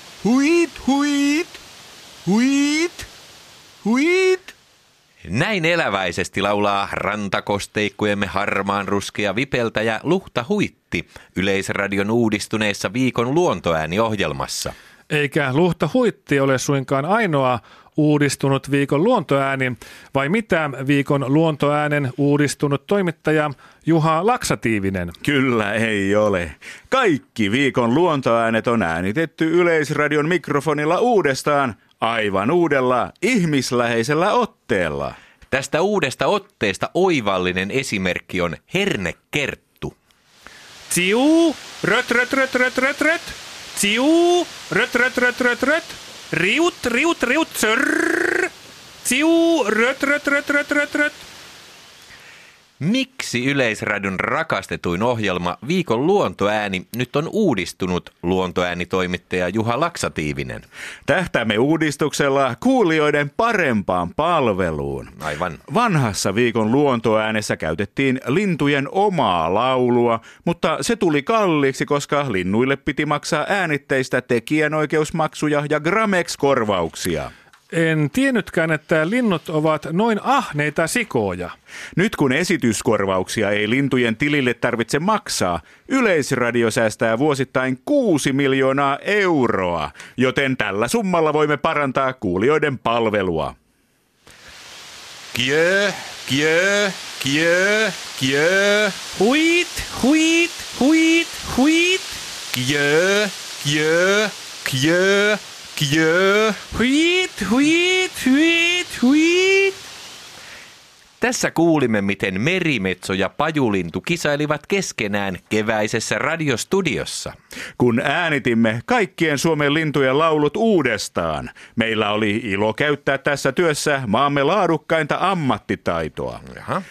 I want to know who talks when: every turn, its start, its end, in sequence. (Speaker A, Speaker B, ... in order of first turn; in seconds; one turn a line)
Speaker A: 0.2-1.6
Speaker A: 2.2-3.1
Speaker A: 3.8-4.5
Speaker B: 5.2-14.7
Speaker C: 15.1-25.1
Speaker A: 25.2-35.1
Speaker B: 35.5-39.9
Speaker C: 40.9-48.5
Speaker C: 49.0-51.2
Speaker B: 52.8-60.6
Speaker A: 61.0-65.1
Speaker B: 65.2-65.6
Speaker A: 65.7-77.3
Speaker C: 77.7-81.5
Speaker A: 82.0-93.5
Speaker B: 95.3-99.0
Speaker C: 99.1-102.2
Speaker B: 102.5-106.6
Speaker C: 106.7-109.8
Speaker B: 111.2-117.3
Speaker A: 117.8-126.4
Speaker B: 126.5-126.8